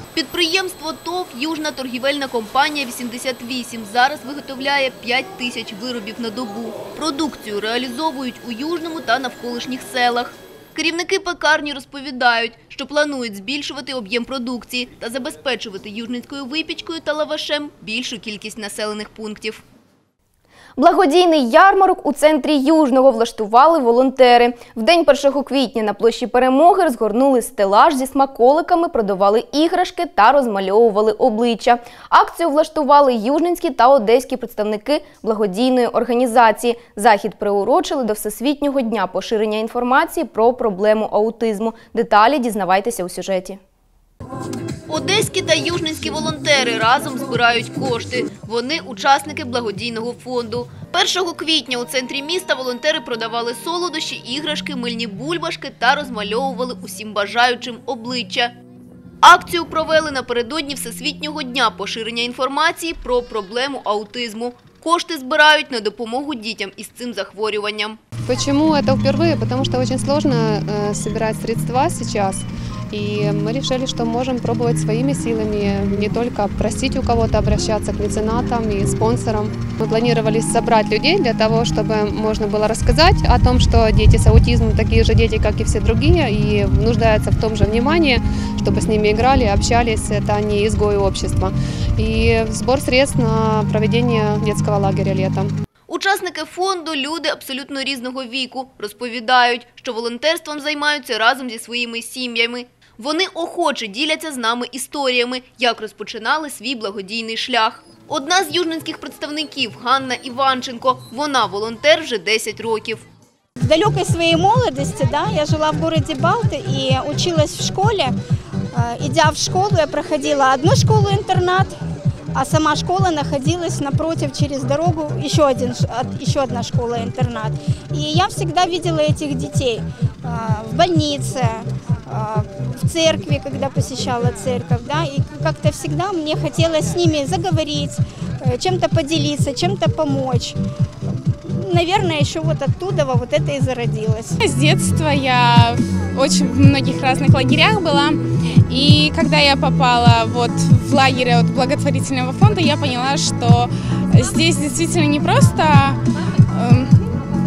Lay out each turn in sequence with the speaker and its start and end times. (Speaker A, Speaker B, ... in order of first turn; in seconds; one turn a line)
Speaker A: 0.1-19.6
Speaker B: 20.8-43.6
Speaker A: 44.9-58.5
Speaker A: 59.2-68.0
Speaker C: 68.3-95.5
Speaker A: 95.9-113.0
Speaker D: 113.6-118.1
Speaker D: 118.8-121.7
Speaker D: 122.4-140.6
Speaker D: 141.6-144.3
Speaker E: 144.4-156.0
Speaker E: 156.5-157.0